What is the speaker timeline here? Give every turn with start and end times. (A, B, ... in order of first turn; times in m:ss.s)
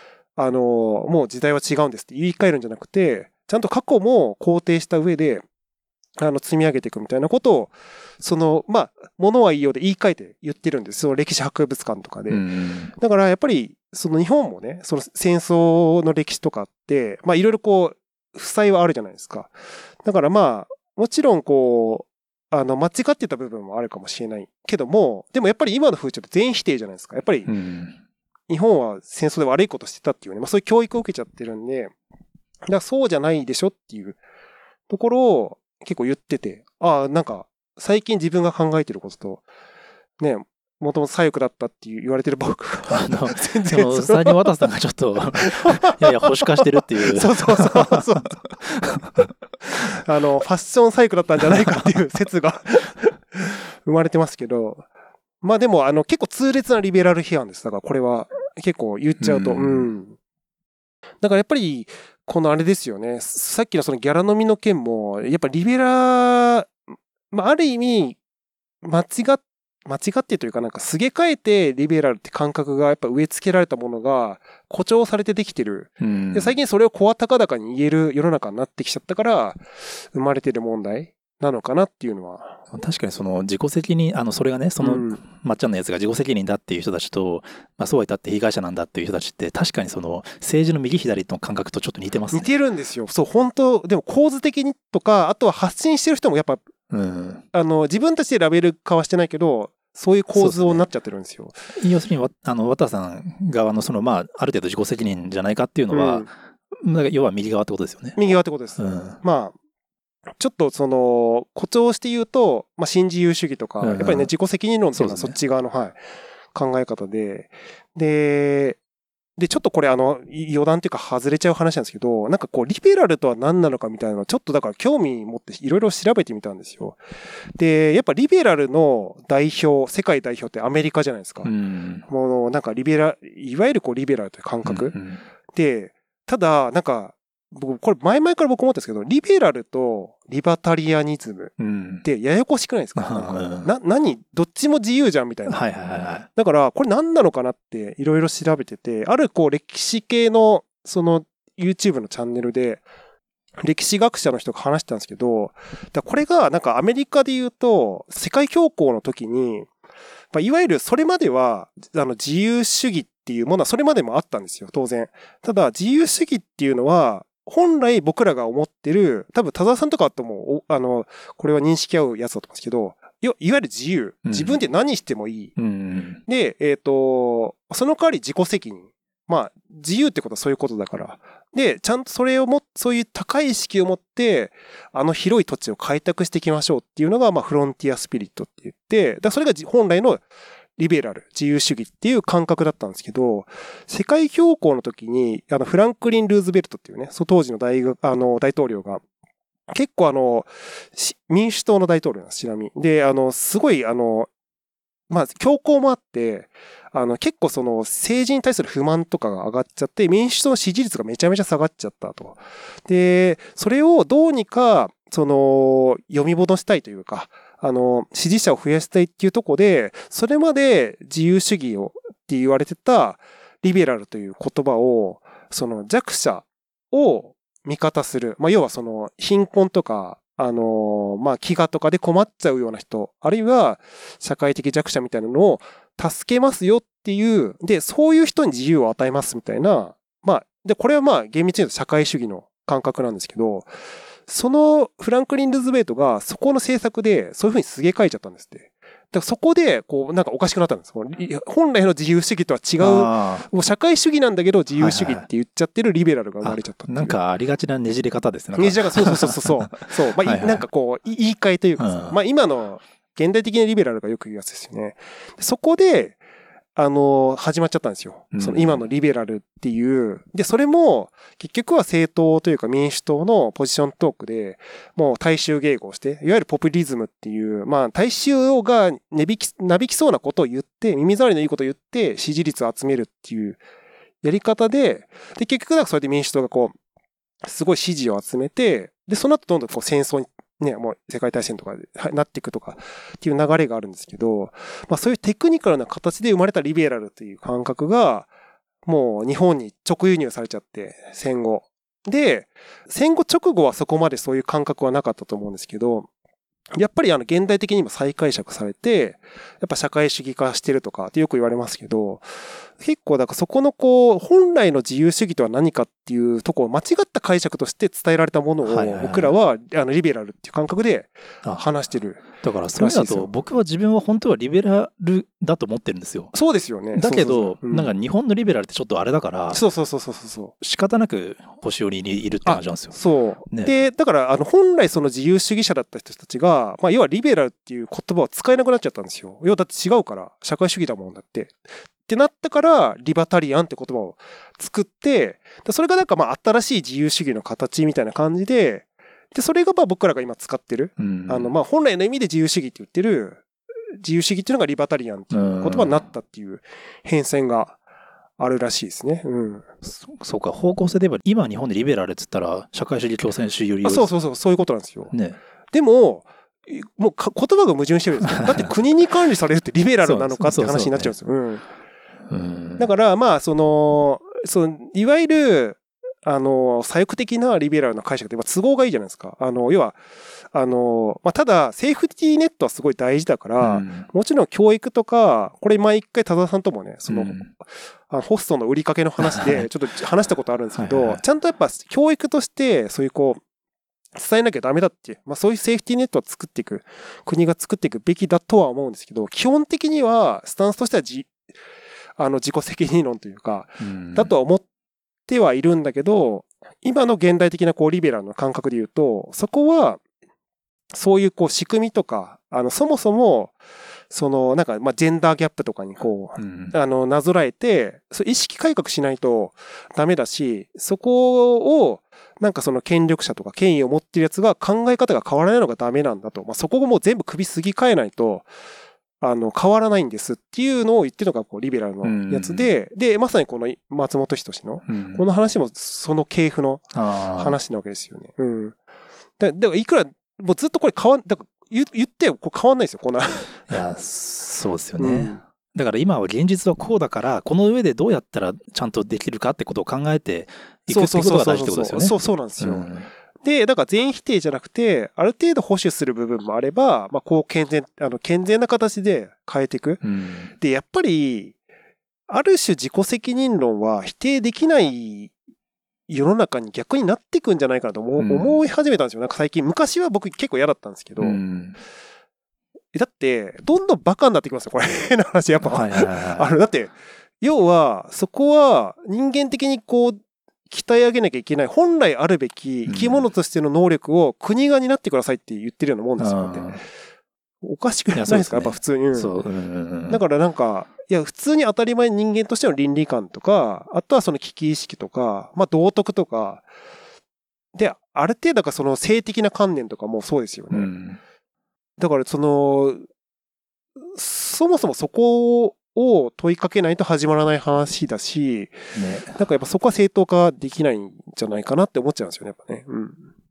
0:00.4-0:05.4 A
0:06.2-0:27.5 A
0:12.3-0:12.9 B
0:27.5-0:28.0 B
0:28.5-0:31.9 A
0:32.7-0:34.2 A
0:34.9-0:39.4 A
0:40.2-0:44.5 A
0:42.9-0:48.0 B
0:45.4-0:48.5 A
0:48.6-0:49.3 B
0:49.7-0:54.8 A
0:55.4-1:00.2 A
0:59.2-0:59.9 B
1:01.2-1:06.8 A
1:07.3-1:08.2 A
1:08.8-1:22.6 A
1:16.0-1:16.5 B
1:22.7-1:32.5 B
1:24.8-1:25.2 A
1:32.3-1:36.7 A
1:36.9-1:37.4 B
1:37.5-1:41.6 A
1:40.4-1:40.8 B
1:41.8-1:48.2 B
1:45.9-1:46.3 A
1:48.2-1:49.6 A
1:48.8-1:49.2 B
1:50.4-1:56.0 A
1:53.8-1:54.3 B
1:55.0-1:55.4 B
1:56.5-1:58.8 A
1:59.4-2:07.0 A
2:07.6-2:11.5 A
2:11.4-2:12.0 B
2:12.1-2:15.0 A
2:14.6-2:15.2 B
2:15.5-2:25.7 A
2:21.6-2:22.0 B
2:23.0-2:23.7 B
2:25.5-2:26.3 B
2:26.3-2:32.8 A
2:33.6-2:39.7 A
2:40.3-2:55.6 A
2:54.2-2:54.6 B
2:55.6-2:56.2 B
2:56.3-3:10.2 A
3:10.8-3:19.0 A
3:19.7-3:24.3 A
3:25.1-4:03.7 A
4:04.3-4:17.2 A
4:12.8-4:13.5 B
4:14.8-4:15.3 B
4:16.4-4:20.6 B
4:18.6-4:26.2 A
4:21.8-4:22.2 B
4:26.8-4:43.6 A
4:28.3-4:28.8 B
4:44.2-4:46.8 A
4:47.4-4:58.3 A
4:58.9-5:06.1 A
5:06.8-5:23.3 A
5:18.6-5:19.4 B
5:21.4-5:21.7 B
5:22.2-5:26.3 B
5:26.3-5:27.9 A
5:26.9-5:29.6 B
5:29.5-5:30.5 A
5:30.6-5:33.7 B
5:32.4-5:53.4 A
5:51.0-5:51.5 B
5:54.0-5:57.8 A
5:55.3-5:56.0 B
5:58.4-5:59.7 A
5:59.8-6:04.1 B
6:03.8-6:05.1 A
6:05.1-6:05.4 B
6:05.7-6:11.6 A
6:10.0-6:11.1 B
6:12.3-6:12.9 B
6:12.8-6:20.0 A
6:20.5-6:33.4 A
6:23.6-6:24.1 B
6:27.1-6:27.5 B
6:29.2-6:29.7 B
6:30.8-6:31.2 B
6:34.2-6:41.4 A
6:42.2-6:44.7 A
6:43.8-6:44.3 B
6:45.3-6:50.0 A
6:50.9-6:53.5 A
6:54.1-7:08.5 A
6:56.4-6:56.8 B
7:09.2-7:18.8 A
7:12.0-7:12.7 B
7:14.9-7:15.2 B
7:16.9-7:17.6 B
7:19.4-7:23.7 A
7:23.7-7:33.1 B
7:25.0-7:25.4 A
7:30.9-7:40.0 A
7:40.0-7:40.5 B
7:40.6-7:41.6 A
7:42.3-7:45.3 A
7:46.1-7:51.4 A
7:48.2-7:48.6 B
7:51.2-7:51.8 B
7:52.9-8:06.8 A
7:55.6-7:56.5 B
8:02.9-8:03.2 B
8:06.2-8:06.8 B
8:07.6-8:09.3 A
8:08.1-8:10.2 B
8:10.1-8:16.7 A
8:17.8-8:20.9 A
8:20.7-8:21.2 B
8:22.0-8:23.0 A
8:24.1-8:33.3 A
8:28.9-8:29.4 B